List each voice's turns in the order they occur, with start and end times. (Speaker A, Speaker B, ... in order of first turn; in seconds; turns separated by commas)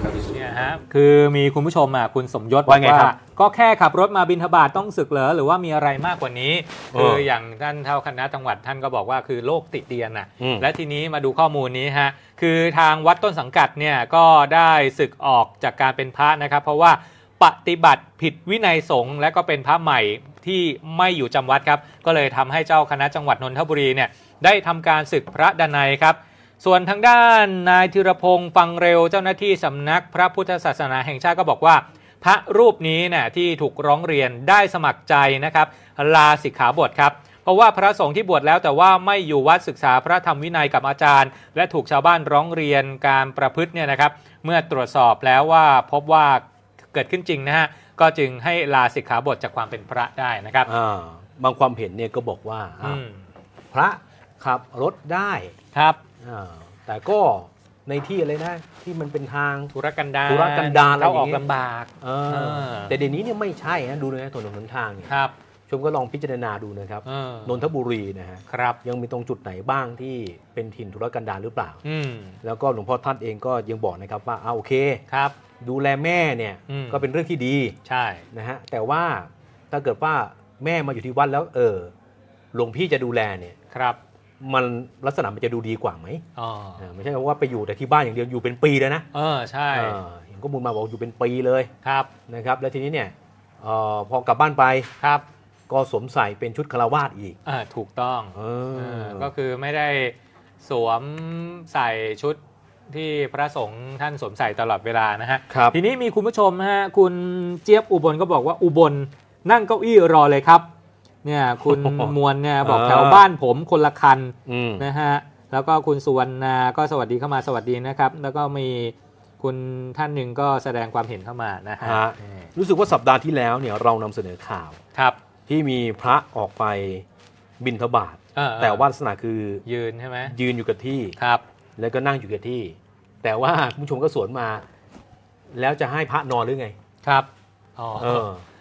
Speaker A: 0.3-46.4, Speaker B: 2.7-3.1, Speaker B: 6.9-7.2, Speaker B: 10.4-10.7, Speaker A: 46.9-50.7, Speaker B: 50.7-53.0, Speaker A: 52.8-53.2, Speaker B: 53.7-55.5, Speaker A: 55.8-56.0, Speaker B: 56.2-59.7, Speaker A: 59.7-62.9, Speaker B: 60.3-61.4, Speaker B: 62.0-65.1, Speaker A: 65.1-65.3, Speaker B: 65.7-71.8, Speaker A: 67.1-67.7, Speaker A: 68.5-68.8, Speaker A: 71.8-72.4, Speaker B: 72.4-75.0, Speaker A: 75.1-75.4, Speaker B: 75.6-77.8, Speaker A: 76.7-77.0, Speaker A: 77.8-78.2, Speaker B: 78.3-81.9, Speaker B: 82.5-83.6, Speaker A: 83.7-84.0, Speaker B: 84.4-86.2, Speaker A: 86.4-86.9, Speaker B: 86.8-89.1, Speaker A: 89.1-90.0, Speaker B: 89.7-91.7, Speaker A: 91.8-92.1, Speaker B: 92.3-94.9, Speaker B: 95.7-97.4, Speaker A: 97.5-102.4, Speaker B: 98.4-99.3, Speaker A: 102.9-110.7, Speaker B: 105.5-105.8, Speaker A: 111.2-122.0, Speaker B: 111.7-113.2, Speaker B: 114.5-114.8, Speaker B: 121.8-124.8, Speaker B: 125.5-127.0, Speaker B: 127.6-129.6, Speaker A: 128.4-128.9, Speaker A: 129.7-130.3, Speaker B: 130.2-131.2, Speaker A: 131.2-131.4, Speaker B: 131.8-134.6, Speaker B: 135.5-136.8, Speaker A: 137.0-138.3, Speaker B: 138.0-138.4